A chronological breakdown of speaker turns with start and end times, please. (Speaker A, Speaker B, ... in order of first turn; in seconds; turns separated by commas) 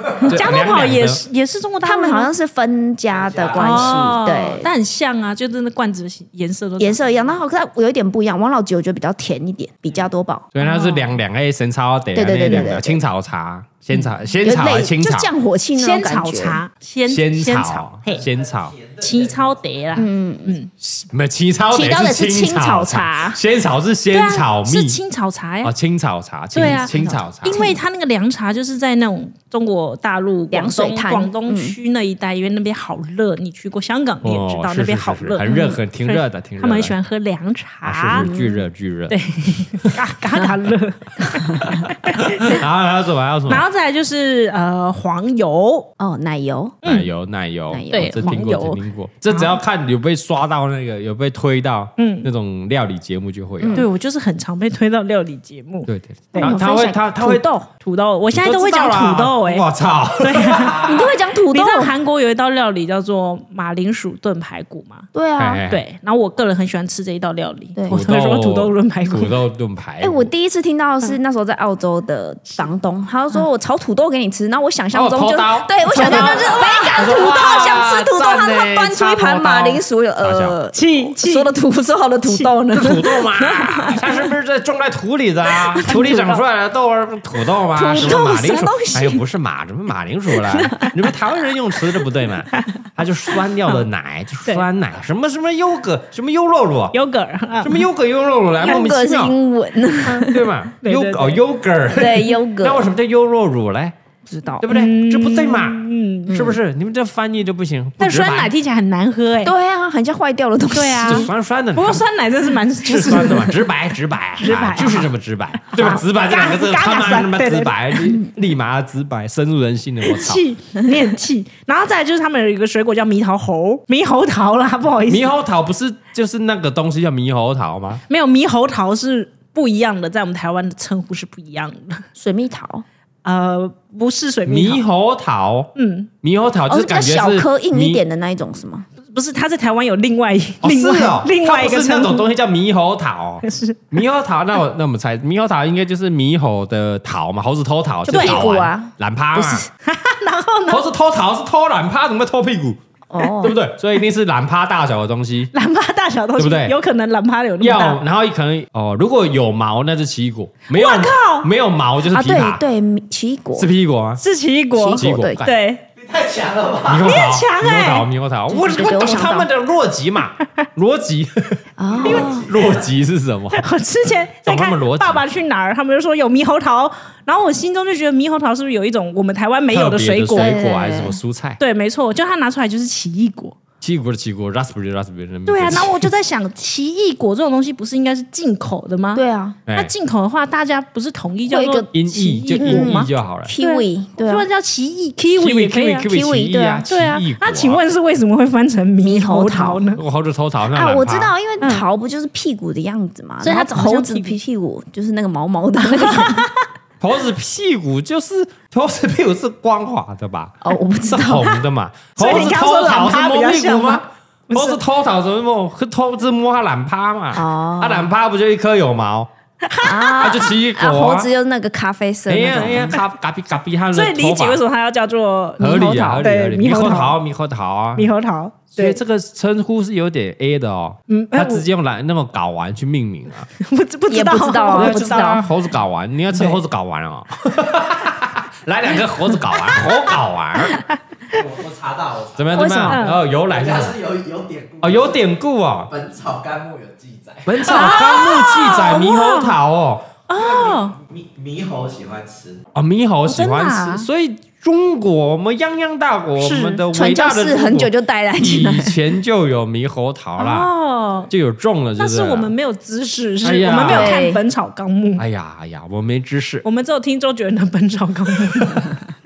Speaker A: 0.2-2.3, Speaker B: 0.2-1.2, Speaker C: 1.8-4.7, Speaker D: 3.1-4.2, Speaker A: 3.5-7.3, Speaker C: 6.8-10.5, Speaker B: 10.5-15.3, Speaker A: 10.6-11.1, Speaker C: 12.1-13.0, Speaker C: 14.4-16.6, Speaker A: 15.8-18.2, Speaker B: 17.1-18.8, Speaker D: 18.2-19.6, Speaker A: 19.0-20.7, Speaker C: 19.9-20.6, Speaker B: 20.8-25.0, Speaker C: 21.7-23.4, Speaker A: 24.1-25.7, Speaker B: 25.6-27.7, Speaker A: 26.5-38.3, Speaker C: 26.6-27.8, Speaker C: 30.5-31.8, Speaker B: 34.2-37.0, Speaker B: 37.9-39.2, Speaker C: 38.1-38.6, Speaker A: 39.1-42.6, Speaker B: 41.6-43.6, Speaker A: 43.5-45.9, Speaker C: 46.0-46.8, Speaker B: 46.8-53.9, Speaker C: 47.7-48.5, Speaker A: 47.9-49.5, Speaker A: 52.0-52.3, Speaker C: 53.6-53.9, Speaker A: 53.7-56.6, Speaker B: 55.9-57.5, Speaker C: 56.4-57.4, Speaker A: 57.2-59.7, Speaker B: 58.3-60.9, Speaker A: 60.2-65.1, Speaker C: 60.8-61.9, Speaker C: 65.1-65.6, Speaker B: 65.4-65.8, Speaker A: 65.7-69.3, Speaker B: 67.9-70.3, Speaker C: 70.0-84.0, Speaker B: 74.9-80.6, Speaker A: 75.9-77.1, Speaker A: 80.7-81.5, Speaker B: 82.7-97.0, Speaker A: 85.8-86.4, Speaker C: 87.7-89.2, Speaker C: 90.5-90.9, Speaker A: 96.9-97.8, Speaker B: 97.6-99.3, Speaker C: 98.6-100.5, Speaker A: 100.0-100.3, Speaker B: 100.3-104.0, Speaker A: 100.8-101.4, Speaker C: 101.9-102.9, Speaker A: 104.4-106.3, Speaker B: 104.6-108.5, Speaker C: 106.3-106.6, Speaker A: 108.0-109.5, Speaker C: 109.4-111.3, Speaker A: 110.7-113.6, Speaker B: 111.0-112.0, Speaker B: 112.8-120.4, Speaker A: 114.4-115.1, Speaker A: 115.7-118.1, Speaker A: 120.0-125.3, Speaker B: 125.1-128.0, Speaker A: 128.1-132.0, Speaker C: 132.2-132.8, Speaker A: 133.2-134.8, Speaker B: 134.5-135.7, Speaker A: 135.8-136.1, Speaker B: 136.2-138.0, Speaker C: 136.7-138.9, Speaker A: 139.1-142.3, Speaker B: 140.6-149.7, Speaker A: 143.4-143.8, Speaker C: 148.1-149.7, Speaker A: 148.1-148.4, Speaker A: 149.8-150.8, Speaker B: 150.7-152.8, Speaker C: 153.1-153.6, Speaker B: 153.4-155.5, Speaker A: 155.5-158.0, Speaker B: 156.4-156.8, Speaker B: 157.6-162.6, Speaker A: 160.7-161.5, Speaker C: 162.1-163.7, Speaker B: 163.6-164.2, Speaker A: 164.2-165.8, Speaker C: 164.8-165.4, Speaker B: 164.8-165.5, Speaker D: 166.0-167.1, Speaker B: 166.8-173.7, Speaker A: 167.0-168.1, Speaker C: 168.5-169.5, Speaker C: 171.8-172.5, Speaker D: 172.0-172.9, Speaker A: 173.5-180.6, Speaker B: 174.4-175.2, Speaker B: 179.7-181.6, Speaker C: 180.3-181.2, Speaker A: 181.6-183.6, Speaker B: 183.8-186.1, Speaker A: 185.5-196.1, Speaker C: 189.2-189.6, Speaker B: 189.7-189.9, Speaker C: 191.5-191.9, Speaker B: 191.9-193.5, Speaker C: 192.5-194.5, Speaker B: 195.4-197.8, Speaker C: 196.0-196.8, Speaker A: 196.9-200.0, Speaker C: 199.0-199.9, Speaker B: 200.0-201.3, Speaker C: 200.7-206.5, Speaker A: 201.6-201.8, Speaker A: 203.4-204.4, Speaker A: 205.8-206.6, Speaker B: 207.0-219.3, Speaker C: 210.6-211.6, Speaker A: 212.2-214.8, Speaker C: 217.3-218.1, Speaker A: 219.6-220.4, Speaker C: 219.8-223.0, Speaker B: 220.2-221.3, Speaker B: 222.3-224.6, Speaker A: 223.9-227.2, Speaker B: 225.6-228.1, Speaker C: 225.6-226.3, Speaker A: 227.9-229.0, Speaker B: 228.7-233.5, Speaker A: 231.1-231.7, Speaker A: 233.6-235.4, Speaker C: 234.1-235.4, Speaker B: 234.7-240.8, Speaker A: 239.5-239.8, Speaker A: 240.7-241.4, Speaker D: 241.3-242.7, Speaker B: 242.4-243.9, Speaker C: 242.5-243.0, Speaker A: 242.9-243.2, Speaker D: 243.4-245.2, Speaker B: 244.8-245.9, Speaker D: 245.9-248.0, Speaker B: 247.5-250.1, Speaker A: 247.6-249.6, Speaker A: 250.3-251.0, Speaker D: 250.3-252.6, Speaker B: 252.7-260.7, Speaker A: 253.3-254.1, Speaker A: 256.4-256.8, Speaker C: 256.9-259.0, Speaker A: 260.4-261.3, Speaker B: 261.3-262.5, Speaker A: 262.0-265.2, Speaker B: 263.4-264.2, Speaker C: 263.8-264.4, Speaker B: 265.2-266.6, Speaker A: 266.6-269.0